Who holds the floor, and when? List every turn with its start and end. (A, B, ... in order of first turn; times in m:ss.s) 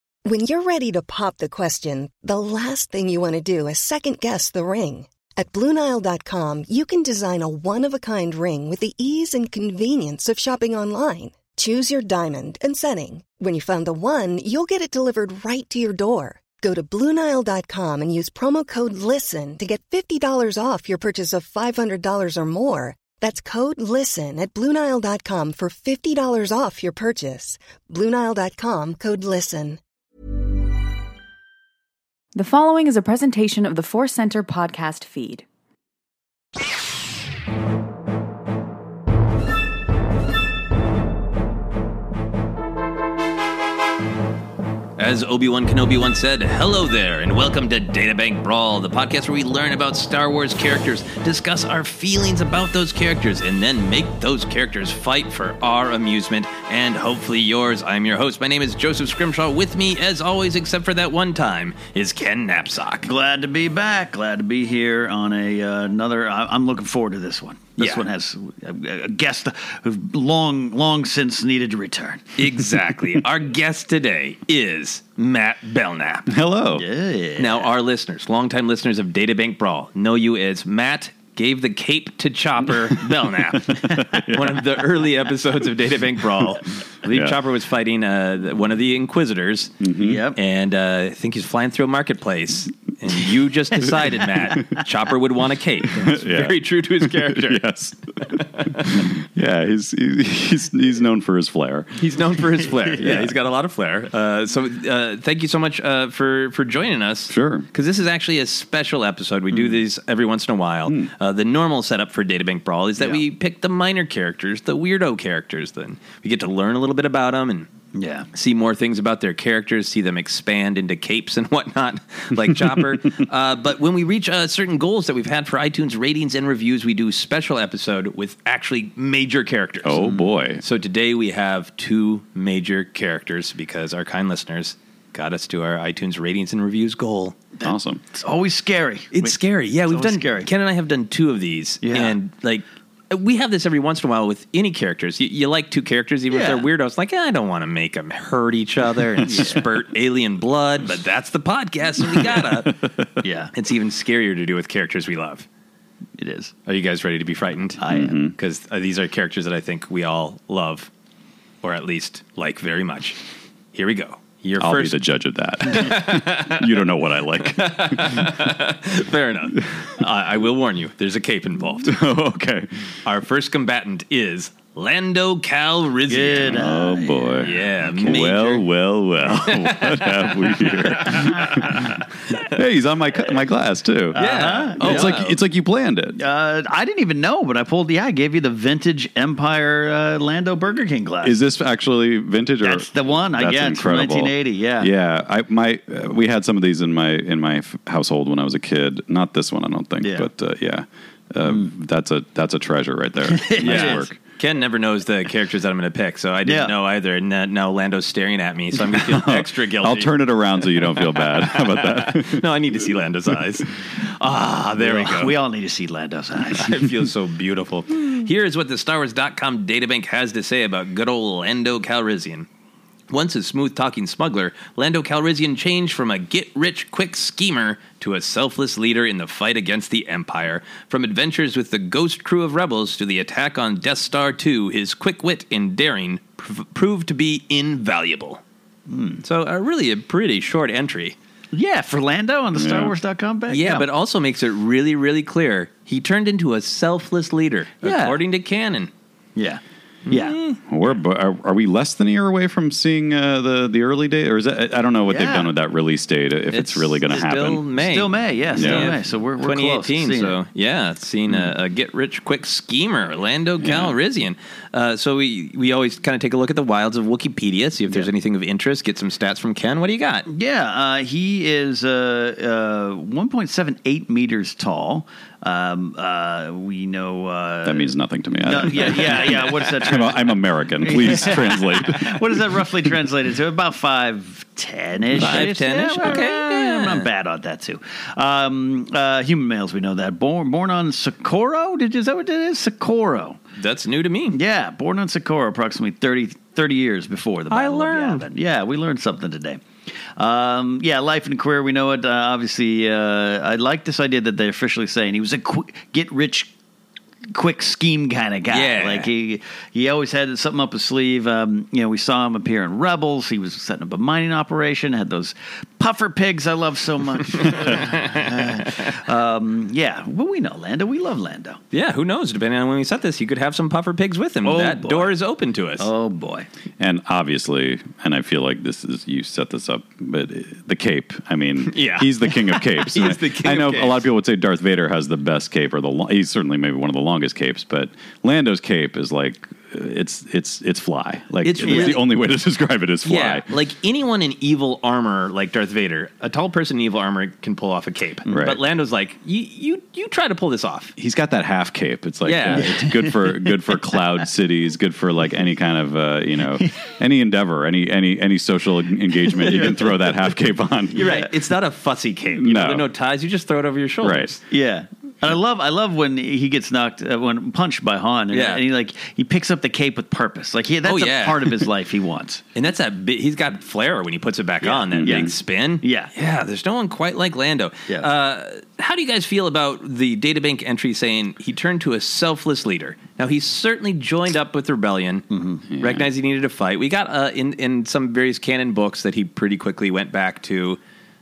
0:00.3-0:29.8 A
0:32.3-0:35.4 B
0:45.0-1:03.1 C
1:03.0-1:12.3 D
1:07.8-1:08.1 C
1:12.4-1:16.3 C
1:16.3-1:16.8 E
1:16.8-1:17.7 D
1:17.4-1:29.8 C
1:24.1-1:24.5 E
1:27.1-1:27.4 E
1:29.8-1:30.2 E
1:30.0-1:30.4 D
1:30.4-1:37.6 C
1:36.0-1:42.0 E
1:38.2-1:39.1 C
1:42.0-1:57.7 C
1:42.9-1:43.3 D
1:47.3-1:47.7 E
1:49.5-1:49.8 D
1:57.9-1:58.3 D
1:58.3-2:17.4 C
2:09.8-2:10.6 E
2:17.6-2:19.4 D
2:17.6-2:18.0 E
2:19.1-2:32.9 C
2:19.9-2:20.5 D
2:21.8-2:22.2 D
2:26.3-2:26.6 D
2:29.3-2:29.7 D
2:33.2-2:33.5 D
2:33.5-2:35.5 C
2:36.2-2:36.6 D
2:36.7-2:40.9 C
2:37.8-2:38.2 D
2:37.9-2:38.4 E
2:41.6-2:43.2 C
2:43.7-2:45.0 C
2:44.6-2:48.4 E
2:45.6-2:46.9 C
2:47.4-2:52.0 C
2:51.8-2:52.7 E
2:53.0-2:56.8 C
2:56.1-2:58.2 D
2:56.5-3:04.2 E
2:57.4-2:58.7 C
2:59.3-3:01.3 C
3:04.1-3:05.2 D
3:04.2-3:05.4 C
3:04.8-3:06.2 E
3:06.2-3:11.4 D
3:11.2-3:24.2 E
3:12.6-3:14.9 D
3:20.0-3:20.3 D
3:23.3-3:24.0 D
3:23.6-3:35.4 C
3:26.4-3:26.7 D
3:29.1-3:32.4 E
3:34.4-3:36.9 D
3:36.4-3:42.5 C
3:43.1-3:58.4 C
3:58.9-3:59.2 D
3:59.2-4:01.2 C
4:01.5-4:03.9 D
4:02.6-4:02.9 E
4:03.5-4:08.9 C
4:07.8-4:08.2 D
4:09.4-4:10.4 D
4:10.1-4:10.6 C
4:10.6-4:17.6 E
4:15.1-4:15.5 D
4:16.5-4:30.3 C
4:17.8-4:20.4 D
4:18.6-4:18.9 E
4:23.6-4:24.0 E
4:30.3-4:37.9 D
4:37.6-4:42.4 E
4:38.4-4:53.4 D
4:45.2-4:47.1 C
4:53.6-4:54.4 C
4:54.3-4:59.6 D
4:57.5-4:58.3 C
5:00.2-5:06.5 D
5:07.3-5:21.6 D
5:08.5-5:09.1 C
5:17.4-5:18.9 C
5:21.7-5:25.9 C
5:24.4-5:25.2 D
5:25.8-5:26.5 D
5:26.8-5:43.5 E
5:31.6-5:34.1 C
5:41.4-5:42.0 C
5:41.6-5:42.0 D
5:43.0-5:51.0 C
5:48.3-5:48.6 E
5:51.0-6:01.0 E
5:52.2-5:52.9 C
5:59.3-5:59.9 D
6:00.9-6:04.4 C
6:00.9-6:01.3 D
6:02.4-6:02.9 E
6:04.0-6:04.3 E
6:04.5-6:12.4 D
6:08.3-6:08.6 C
6:10.8-6:11.7 C
6:12.6-6:25.3 C
6:14.6-6:16.1 D
6:15.0-6:15.3 E
6:25.3-6:25.6 D
6:25.7-6:26.1 E
6:25.8-6:30.8 C